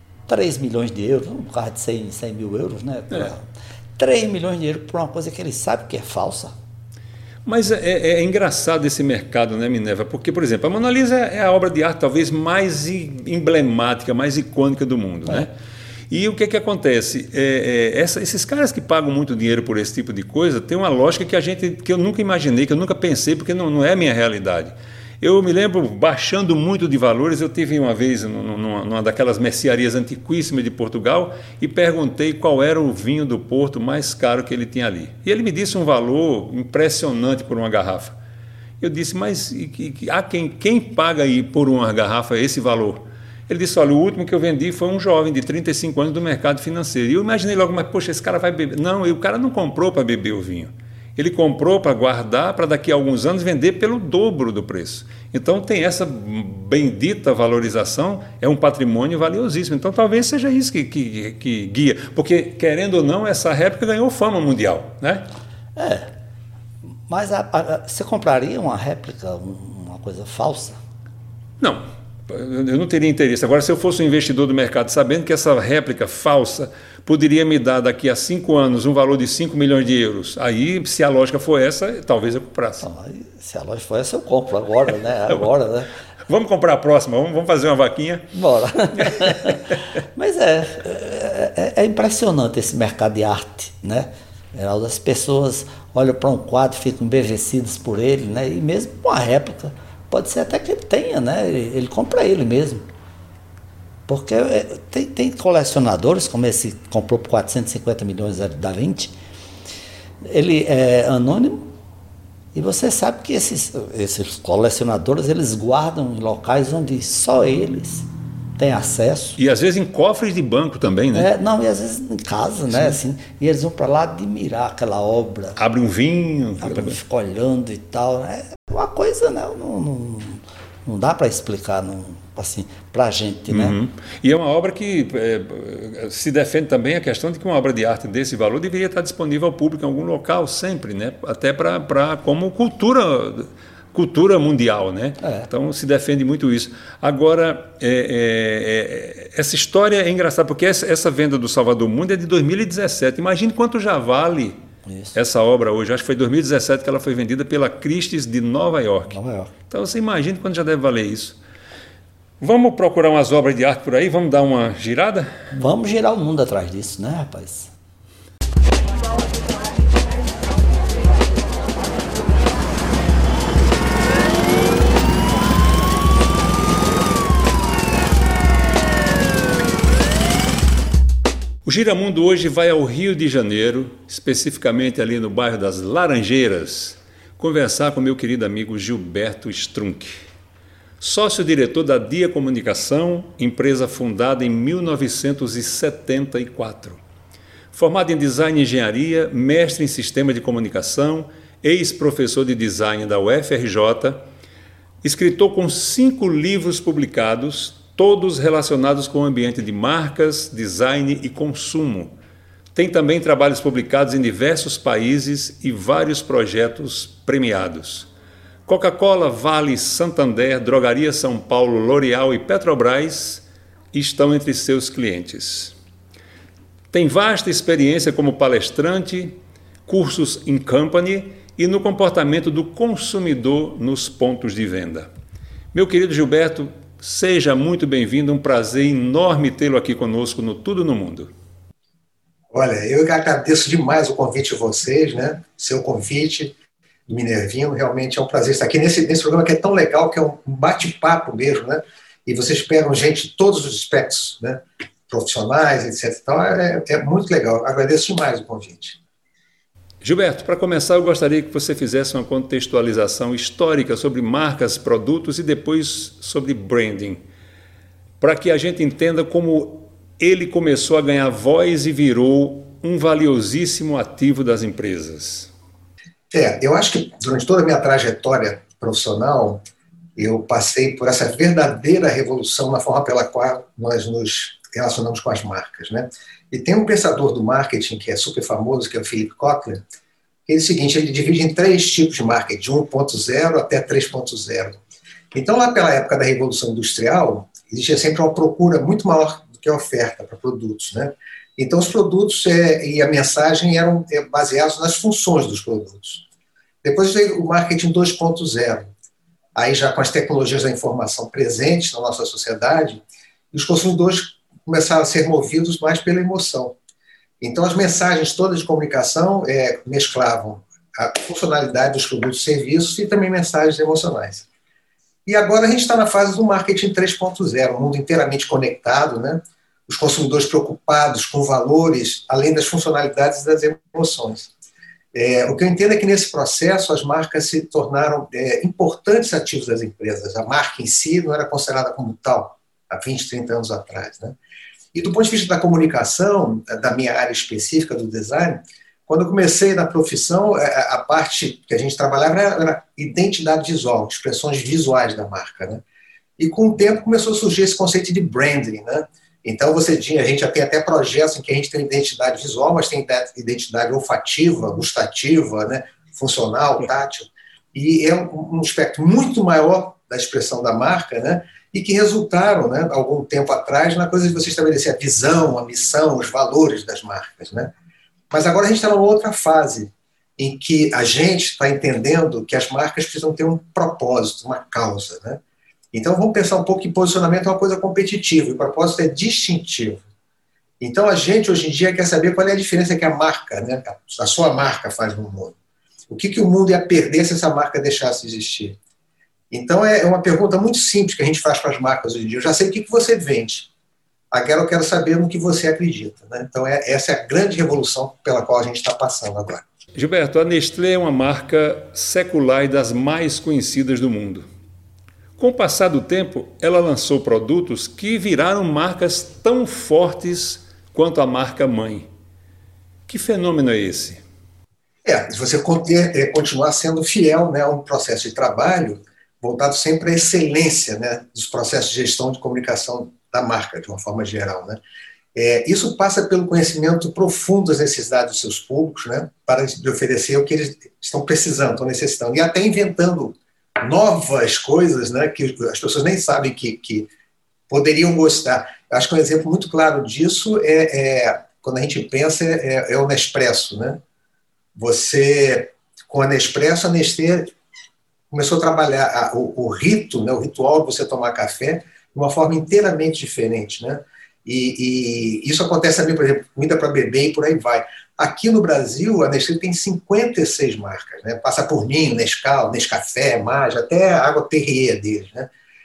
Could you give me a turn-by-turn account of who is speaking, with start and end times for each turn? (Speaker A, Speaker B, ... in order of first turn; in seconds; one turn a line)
Speaker A: 0.3-3.4
Speaker A: 4.0-6.5
Speaker B: 7.4-15.5
Speaker B: 16.1-38.1
Speaker B: 38.8-65.2
Speaker A: 65.8-66.1
Speaker A: 67.1-70.8
Speaker B: 71.6-82.8
Speaker A: 82.8-85.9
Speaker B: 86.3-88.3
Speaker A: 88.3-102.8
Speaker B: 88.9-89.7
Speaker A: 104.1-109.1
Speaker A: 110.2-111.7
Speaker A: 112.5-118.1
Speaker A: 118.6-119.4
Speaker B: 119.4-121.3
Speaker A: 121.1-125.6
Speaker B: 122.7-123.0
Speaker B: 125.6-127.0
Speaker A: 126.6-133.8
Speaker B: 133.5-154.6
Speaker A: 145.2-145.5
Speaker A: 154.8-155.2
Speaker B: 155.1-159.2
Speaker A: 159.1-159.5
Speaker B: 159.7-161.4
Speaker B: 162.4-165.3
Speaker A: 165.5-167.7
Speaker B: 181.6-190.2
Speaker B: 191.0-197.0
Speaker B: 197.7-204.2
Speaker B: 205.0-212.1
Speaker B: 212.7-218.1
Speaker B: 218.7-225.7
Speaker B: 226.9-235.1
Speaker B: 235.7-241.3
Speaker C: 242.5-246.5
Speaker C: 247.1-259.0
Speaker B: 260.0-267.2
Speaker B: 268.2-275.5
Speaker C: 276.3-279.6
Speaker C: 280.1-289.8
Speaker C: 290.5-294.8
Speaker C: 295.3-306.2
Speaker C: 306.8-308.9
Speaker C: 309.5-316.8
Speaker C: 317.4-324.4
Speaker C: 325.2-334.5
Speaker C: 335.1-344.4
Speaker C: 344.9-355.8
Speaker C: 356.4-377.7
Speaker C: 378.3-385.4
Speaker C: 385.9-390.0
Speaker C: 390.8-395.6
Speaker C: 396.1-398.8
Speaker C: 399.5-403.7
Speaker C: 404.3-409.6
Speaker B: 409.9-414.4
Speaker B: 415.4-422.1
Speaker B: 423.1-424.2
Speaker C: 425.0-434.8
Speaker C: 435.3-447.1
Speaker C: 447.7-454.0
Speaker C: 454.7-457.5
Speaker C: 458.3-475.5